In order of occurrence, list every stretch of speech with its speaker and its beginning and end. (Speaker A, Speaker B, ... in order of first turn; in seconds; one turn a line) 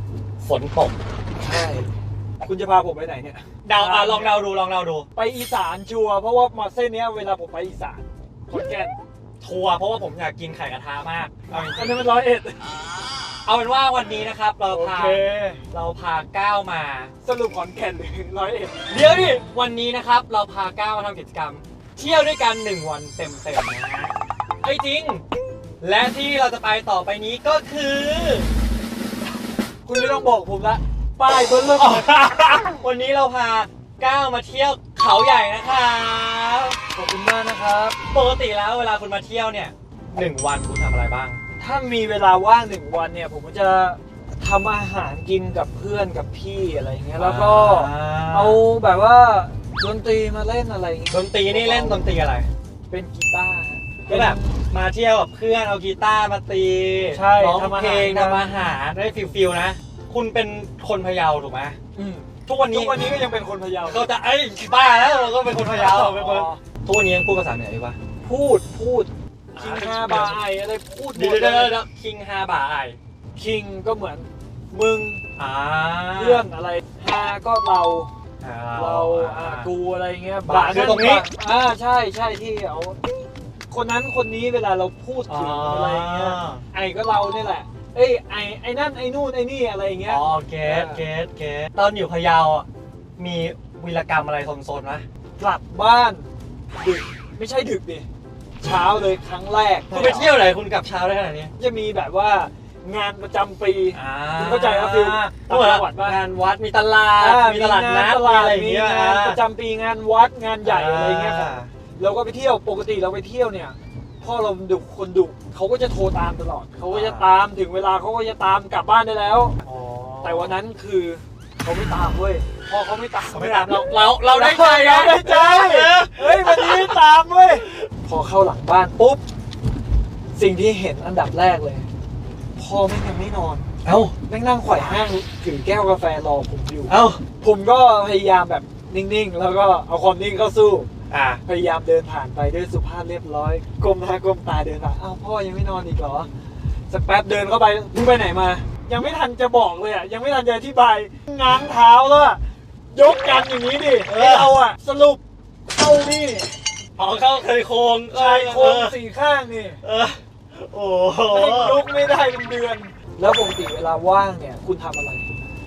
Speaker A: 0.4-0.9
Speaker B: 1.4-1.9
Speaker B: 2.4-4.4
Speaker A: 3.6-5.1
Speaker B: 5.1-9.0
Speaker A: 9.4-12.0
Speaker B: 11.7-12.6
Speaker A: 13.4-17.1
Speaker B: 14.7-15.6
Speaker B: 17.2-18.8
Speaker A: 18.9-25.2
Speaker A: 25.8-28.5
Speaker B: 29.9-32.6
Speaker A: 31.5-36.8
Speaker B: 36.9-38.0
Speaker A: 38.1-41.4
Speaker B: 41.6-52.1
Speaker A: 47.2-48.6
Speaker A: 51.1-52.5
Speaker B: 52.9-54.6
Speaker A: 54.1-61.8
Speaker B: 57.1-58.6
Speaker B: 61.9-64.1
Speaker A: 62.5-63.0
Speaker A: 63.8-68.0
Speaker B: 65.5-66.6
Speaker B: 68.2-71.8
Speaker A: 69.5-70.4
Speaker A: 71.1-73.0
Speaker B: 73.3-75.2
Speaker A: 75.3-76.5
Speaker B: 76.1-78.1
Speaker A: 78.4-79.7
Speaker B: 78.7-91.0
Speaker A: 80.4-81.3
Speaker A: 85.3-86.6
Speaker A: 90.0-95.0
Speaker B: 95.4-98.1
Speaker B: 98.6-100.3
Speaker A: 99.9-101.5
Speaker B: 101.6-106.2
Speaker A: 103.9-109.4
Speaker B: 107.2-119.6
Speaker A: 110.6-111.7
Speaker A: 116.9-117.3
Speaker A: 119.6-120.5
Speaker B: 120.2-129.2
Speaker A: 123.3-127.0
Speaker B: 130.3-131.9
Speaker B: 132.6-133.7
Speaker A: 133.8-134.1
Speaker B: 134.2-140.9
Speaker A: 136.9-137.2
Speaker A: 141.1-141.4
Speaker B: 141.4-146.3
Speaker B: 146.9-156.6
Speaker A: 154.0-154.6
Speaker A: 157.0-158.9
Speaker B: 158.1-159.8
Speaker A: 159.8-161.8
Speaker B: 161.3-165.4